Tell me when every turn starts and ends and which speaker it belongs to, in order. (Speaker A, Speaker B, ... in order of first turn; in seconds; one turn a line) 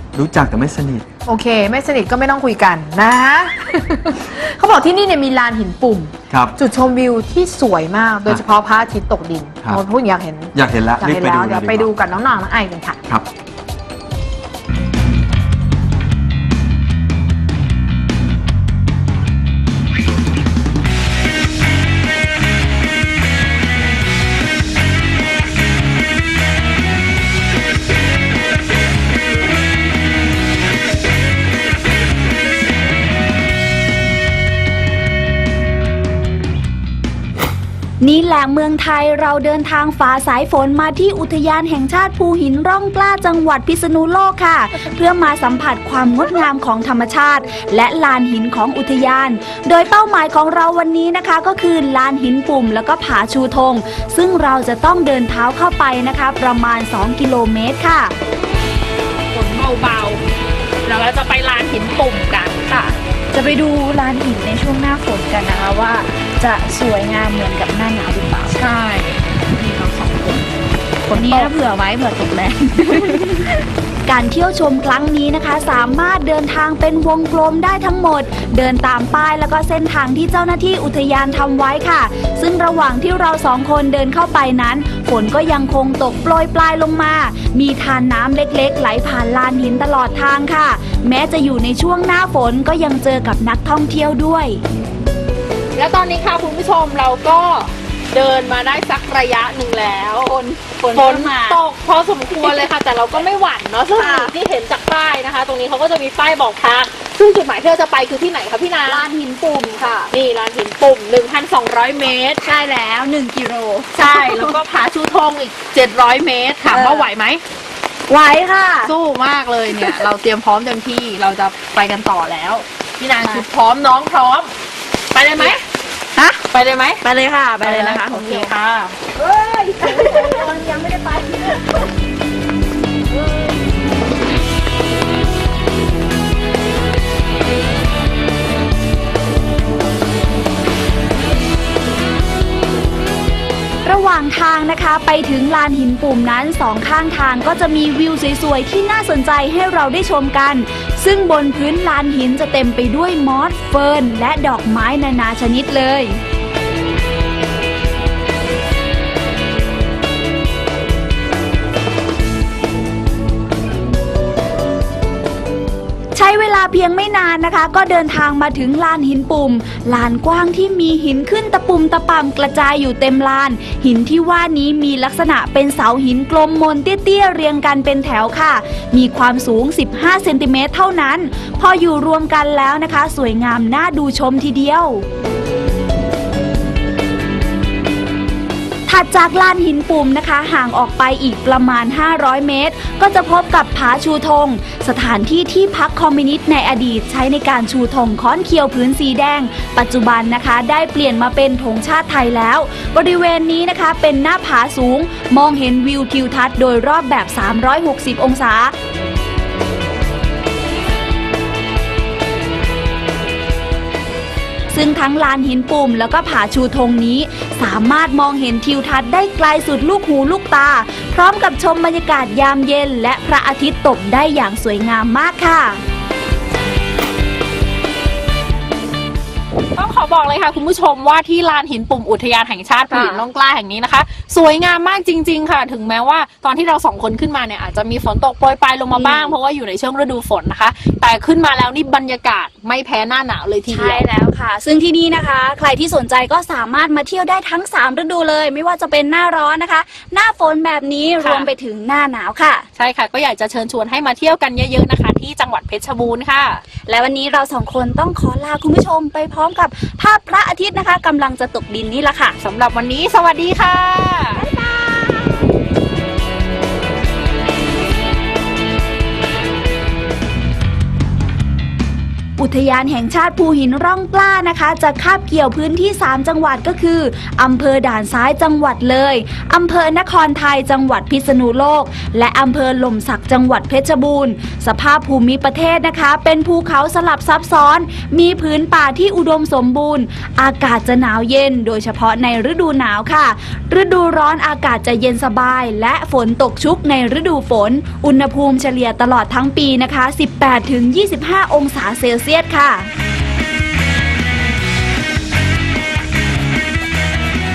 Speaker A: 0.1-1.1
Speaker B: 1.2-13.0
Speaker A: 6.3-6.5
Speaker A: 10.5-11.9
Speaker C: 38.0-58.1
Speaker D: 59.3-60.2
Speaker D: 60.8-62.6
Speaker C: 62.7-68.6
Speaker D: 68.5-69.4
Speaker C: 69.6-70.4
Speaker C: 71.0-94.6
Speaker D: 71.1-71.5
Speaker D: 95.8-100.3
Speaker C: 100.2-101.6
Speaker D: 100.9-109.0
Speaker C: 102.4-102.7
Speaker C: 104.0-104.3
Speaker C: 108.8-110.1
Speaker D: 110.1-112.4
Speaker C: 112.4-114.5
Speaker D: 113.9-117.4
Speaker C: 116.7-117.1
Speaker C: 118.1-118.9
Speaker D: 118.8-124.5
Speaker C: 119.7-120.0
Speaker D: 125.1-125.6
Speaker C: 126.2-126.4
Speaker D: 126.5-127.0
Speaker C: 127.0-128.5
Speaker D: 127.6-128.9
Speaker C: 129.1-131.8
Speaker C: 143.8-156.2
Speaker C: 166.1-185.0
Speaker C: 188.9-208.7
Speaker C: 214.7-225.8
Speaker D: 229.8-244.1
Speaker C: 232.9-233.2
Speaker C: 238.9-239.3
Speaker C: 243.7-252.7
Speaker D: 251.2-251.5
Speaker D: 252.8-256.6
Speaker C: 256.8-262.4
Speaker D: 262.4-264.4
Speaker C: 264.4-265.4
Speaker C: 272.4-302.9